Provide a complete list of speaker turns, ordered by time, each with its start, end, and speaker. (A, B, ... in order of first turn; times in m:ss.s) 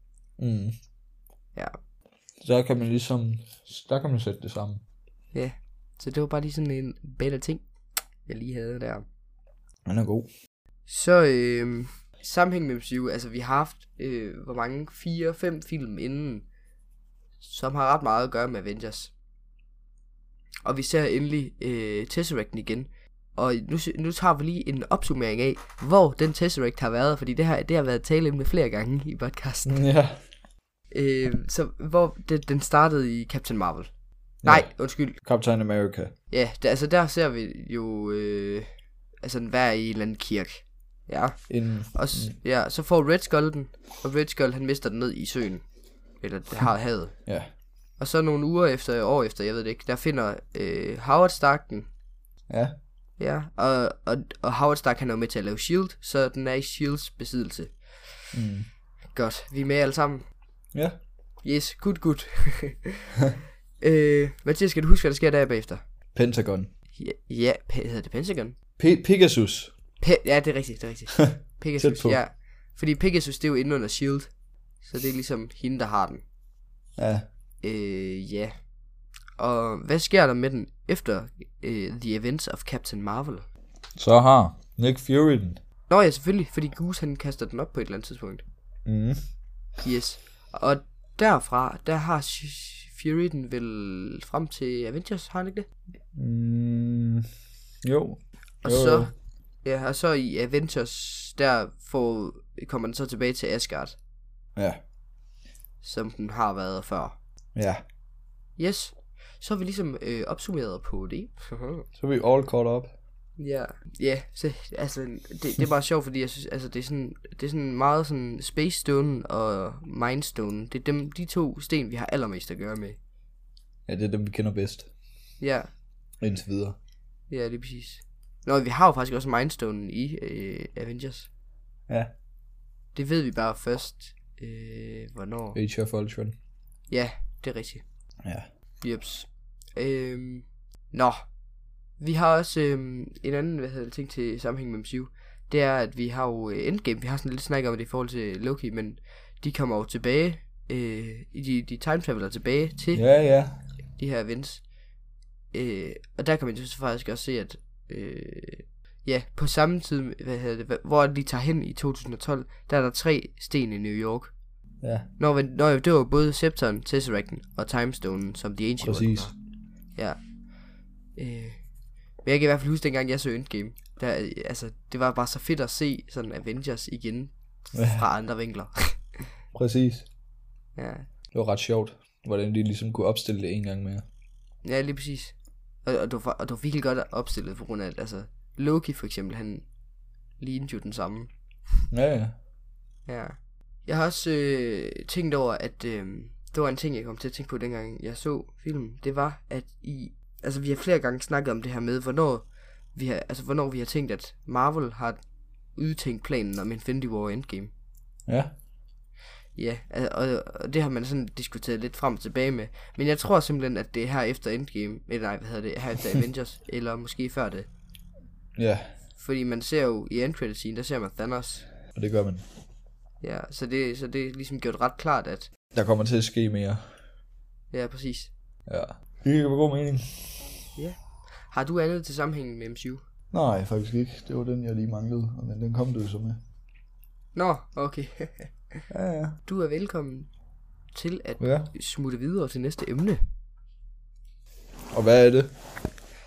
0:00.4-0:00.8 A
0:02.4-0:04.8 A
0:05.3-0:07.6 B
0:08.3-0:09.0 B
0:09.9-0:10.3 A
0:10.9-0:16.4 B
0:17.4-0:19.1 B
0:20.6-0:29.8 B
0:29.7-0:30.2 A
0:30.9-0:33.9 B
0:34.4-0:36.1 A
0:34.4-0:35.2 B
0:36.3-0:38.7 B
0:39.2-0:45.6 B
0:41.5-0:42.4 A
0:46.2-0:47.2 B
0:47.3-0:47.5 A
0:48.0-0:51.9 B
0:52.5-0:52.8 A
0:53.2-0:57.8 B
0:58.3-0:58.7 A
0:59.1-1:00.3 B
1:01.4-1:03.2 B
1:03.8-1:05.8 B
1:06.2-1:06.7 A
1:07.0-1:08.6 B
1:08.8-1:09.7 A
1:10.0-1:14.3 B
1:11.2-1:12.2 A
1:14.8-1:16.2 B
1:17.0-1:17.3 A
1:17.6-1:18.5 B
1:19.4-1:23.5 B
1:24.0-1:25.6 A
1:25.9-1:28.4 B
1:28.9-1:29.2 A
1:29.8-1:35.7 B
1:36.2-1:37.3 A
1:37.8-1:39.1 A
1:38.6-1:39.1 B
1:39.6-1:44.0 B
1:44.6-1:44.8 A
1:45.8-1:47.2 B
1:47.6-1:47.8 A
1:48.6-1:51.9 B
1:52.0-1:52.9 A
1:53.4-2:03.0 B
2:03.9-2:04.9 A
2:05.4-2:05.7 B
2:06.2-2:06.8 A
2:07.3-2:11.3 B
2:13.0-2:15.6 B
2:15.5-2:16.4 A
2:16.9-2:17.8 B
2:18.8-2:21.2 B
2:22.0-2:33.0 B
2:32.9-2:33.6 A
2:34.0-2:34.6 B
2:35.5-2:44.3 B
2:44.8-2:45.1 A
2:45.2-2:49.3 B
2:48.8-2:49.3 A
2:51.2-2:51.6 B
2:52.2-2:59.0 B
2:57.8-2:58.0 A
2:59.5-3:00.1 A
3:00.8-3:01.1 B
3:01.3-3:04.0 A
3:04.6-3:09.6 B
3:10.4-3:11.3 B
3:11.9-3:12.4 A
3:13.1-3:25.2 B
3:25.8-3:27.7 B
3:28.3-3:28.5 A
3:29.6-3:37.7 B
3:38.6-3:38.9 A
3:39.2-3:41.7 B
3:42.0-3:42.4 A
3:43.2-3:45.5 B
3:45.7-3:46.8 A
3:47.7-3:48.3 B
3:48.7-3:50.4 A
3:51.5-3:53.0 B
3:53.3-3:56.4 A
3:57.3-3:58.8 B
3:58.9-3:59.4 A
3:59.5-4:00.3 B
4:00.9-4:03.2 B
4:01.4-4:01.7 A
4:04.9-4:05.5 A